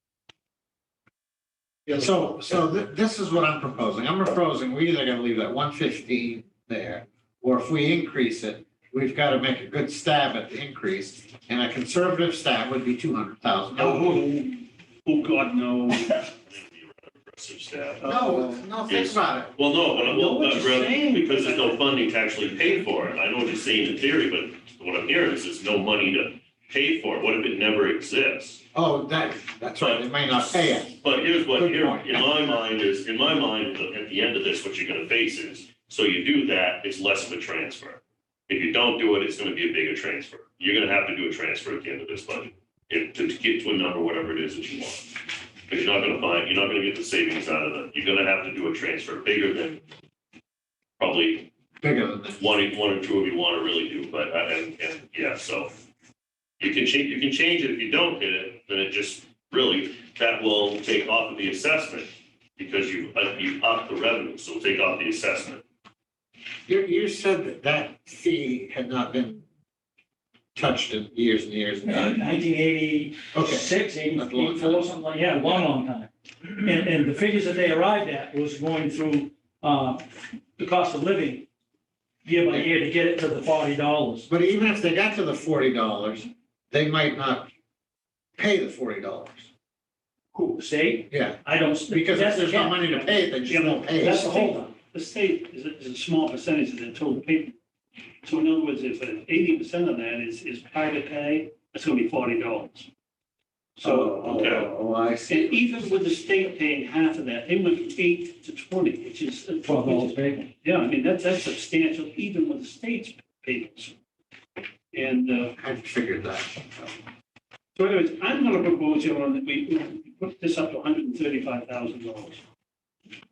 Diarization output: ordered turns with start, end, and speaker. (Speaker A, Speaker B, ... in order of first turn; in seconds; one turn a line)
Speaker A: 1.9-14.3
Speaker B: 13.8-16.3
Speaker C: 16.4-18.1
Speaker B: 17.9-18.6
Speaker A: 18.0-19.6
Speaker C: 18.9-28.6
Speaker B: 20.0-21.9
Speaker A: 28.7-32.4
Speaker C: 29.8-45.1
Speaker C: 45.7-49.8
Speaker C: 51.0-51.5
Speaker A: 51.8-52.4
Speaker C: 52.4-55.8
Speaker C: 56.6-65.6
Speaker A: 66.7-69.4
Speaker A: 70.5-72.2
Speaker D: 71.8-81.5
Speaker A: 73.3-74.9
Speaker D: 82.2-84.3
Speaker A: 84.3-87.5
Speaker A: 88.4-89.5
Speaker D: 90.3-93.2
Speaker A: 91.1-94.3
Speaker B: 93.4-97.6
Speaker D: 94.0-94.7
Speaker B: 98.2-102.9
Speaker B: 103.8-104.4
Speaker A: 103.8-105.6
Speaker C: 104.2-104.7
Speaker B: 105.3-113.9
Speaker D: 109.6-110.5
Speaker B: 114.9-115.5
Speaker A: 115.6-116.9
Speaker B: 117.8-122.4